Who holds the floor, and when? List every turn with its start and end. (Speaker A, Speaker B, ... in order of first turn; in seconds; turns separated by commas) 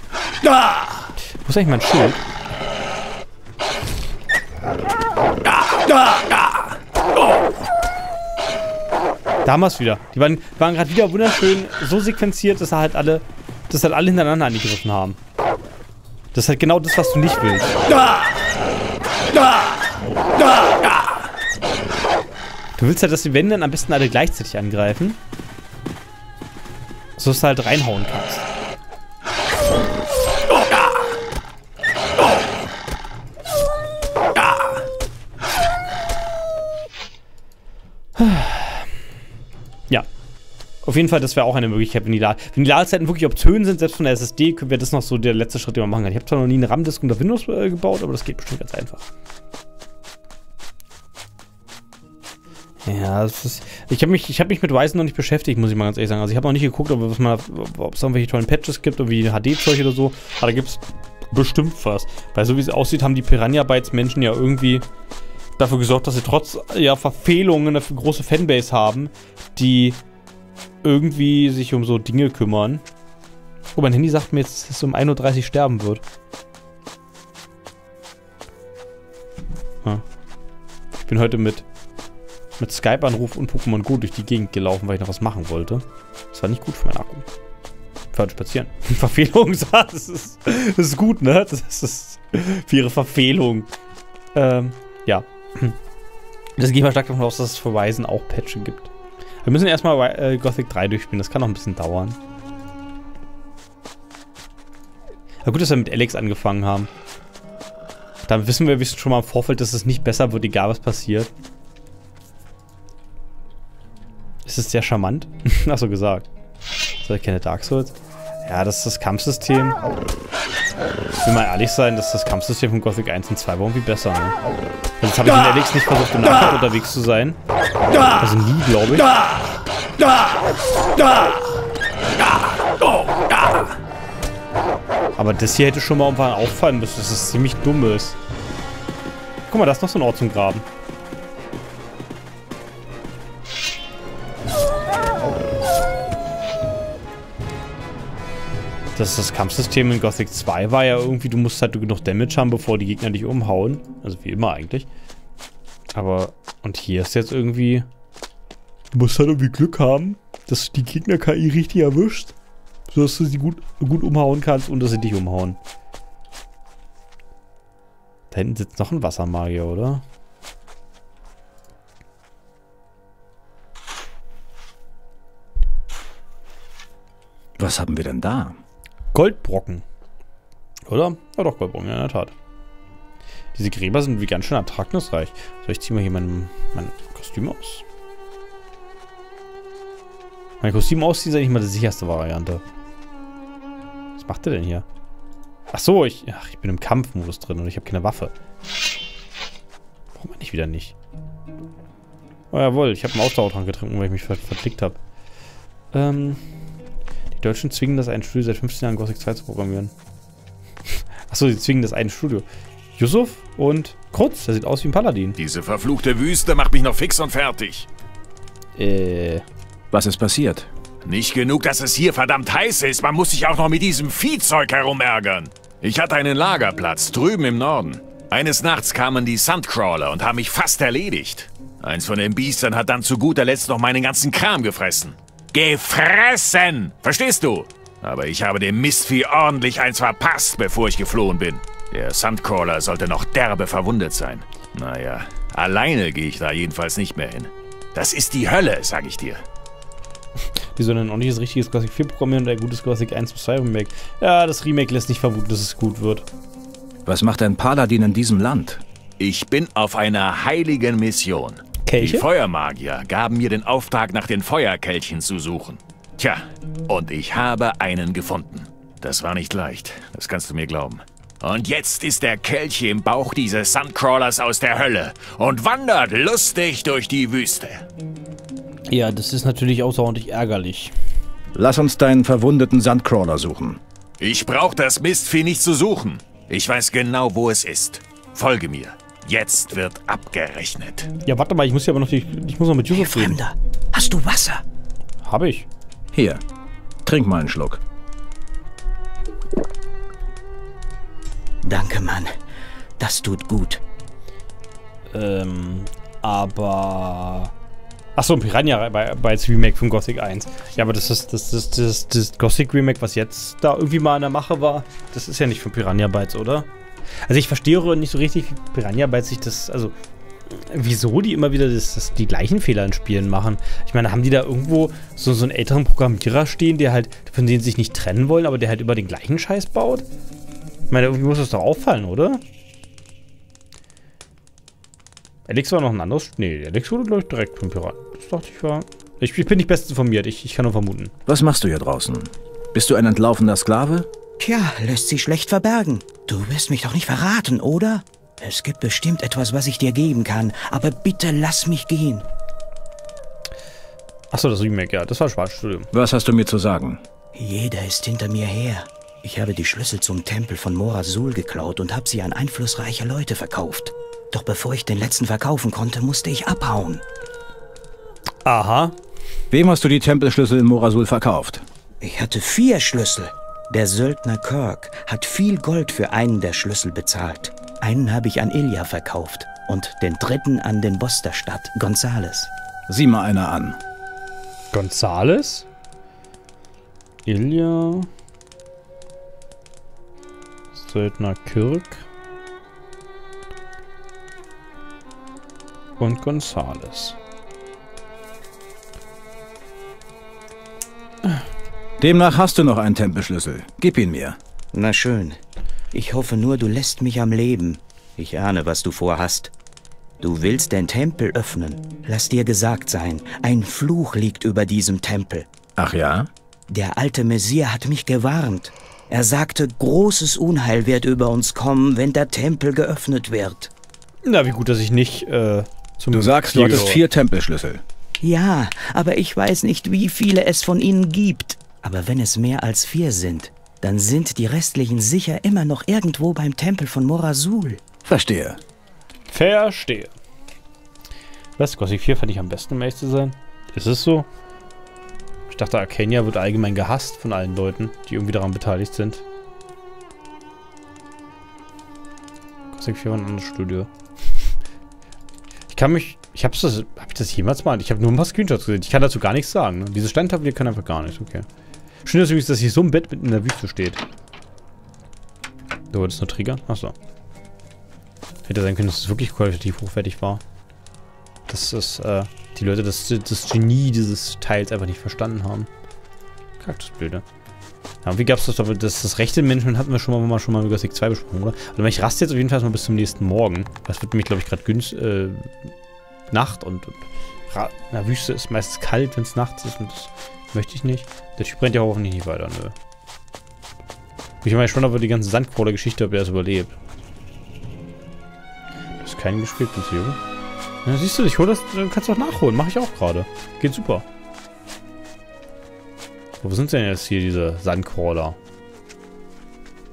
Speaker A: 1.4-2.2, Speaker A: 9.4-15.2, Speaker A: 16.3-17.8, Speaker A: 22.8-25.2, Speaker A: 27.2-28.5, Speaker A: 38.2-38.9, Speaker A: 40.8-49.1, Speaker A: 52.8-64.8, Speaker A: 65.6-70.0, Speaker A: 70.8-72.8, Speaker A: 73.7-76.0, Speaker A: 81.0-81.7, Speaker A: 82.6-87.3, Speaker A: 88.1-93.7, Speaker A: 94.3-95.8, Speaker A: 96.6-98.9, Speaker A: 99.4-102.2, Speaker A: 105.5-106.9, Speaker A: 108.3-111.3, Speaker A: 114.5-116.3, Speaker A: 117.0-118.0, Speaker A: 118.5-119.8, Speaker A: 121.2-124.4, Speaker A: 125.0-127.4, Speaker A: 128.2-129.1, Speaker A: 135.2-138.2, Speaker A: 139.5-140.7, Speaker A: 149.0-154.9, Speaker A: 155.9-157.9, Speaker A: 158.9-162.3, Speaker A: 162.9-165.6, Speaker A: 168.3-170.0, Speaker B: 177.6-178.6, Speaker A: 179.1-179.8, Speaker A: 180.9-182.3, Speaker A: 183.5-187.8, Speaker A: 190.6-192.6, Speaker A: 194.2-194.9, Speaker A: 195.7-198.3, Speaker A: 200.2-200.9, Speaker A: 202.5-205.0, Speaker A: 205.9-206.4, Speaker A: 207.4-209.9, Speaker A: 210.9-212.5, Speaker A: 213.0-215.4, Speaker C: 215.4-217.9, Speaker A: 218.8-219.4, Speaker B: 219.9-220.7, Speaker C: 221.1-249.4, Speaker A: 250.8-256.3, Speaker B: 257.1-258.8, Speaker C: 259.2-277.9, Speaker A: 261.9-262.3, Speaker A: 278.9-280.9, Speaker B: 281.5-283.8, Speaker C: 284.2-291.1, Speaker A: 291.2-293.4, Speaker D: 292.9-294.6, Speaker A: 295.2-295.7, Speaker B: 296.1-296.4, Speaker B: 297.1-297.8, Speaker D: 301.6-302.3, Speaker D: 303.0-303.8, Speaker A: 305.1-307.5, Speaker A: 308.2-316.7, Speaker A: 317.2-319.9, Speaker A: 320.5-330.1, Speaker A: 330.9-332.4, Speaker A: 335.5-341.1, Speaker B: 341.3-344.1, Speaker D: 344.4-352.2, Speaker A: 354.3-355.9, Speaker B: 355.9-357.0, Speaker D: 357.4-367.0, Speaker A: 368.4-368.9, Speaker B: 369.5-371.6, Speaker D: 372.0-382.5, Speaker B: 382.9-383.8, Speaker A: 384.7-385.7, Speaker A: 387.2-388.1, Speaker A: 390.7-392.1, Speaker A: 396.0-397.2, Speaker B: 402.0-404.4, Speaker D: 404.7-405.4, Speaker D: 405.9-409.5, Speaker D: 410.2-415.5, Speaker B: 415.8-416.3, Speaker D: 416.7-423.7, Speaker A: 424.3-427.0, Speaker B: 426.1-427.8, Speaker D: 428.2-437.8, Speaker B: 438.1-438.6, Speaker A: 439.3-440.1, Speaker A: 441.6-444.3, Speaker A: 445.5-449.2, Speaker A: 452.7-453.9, Speaker A: 455.7-461.5, Speaker A: 462.1-464.0, Speaker A: 465.9-466.9, Speaker A: 468.5-470.4, Speaker A: 471.5-475.7, Speaker A: 476.6-477.2, Speaker A: 478.0-485.7, Speaker A: 486.3-492.8, Speaker A: 494.4-496.8, Speaker A: 499.0-500.2, Speaker A: 500.9-504.1, Speaker A: 506.4-508.4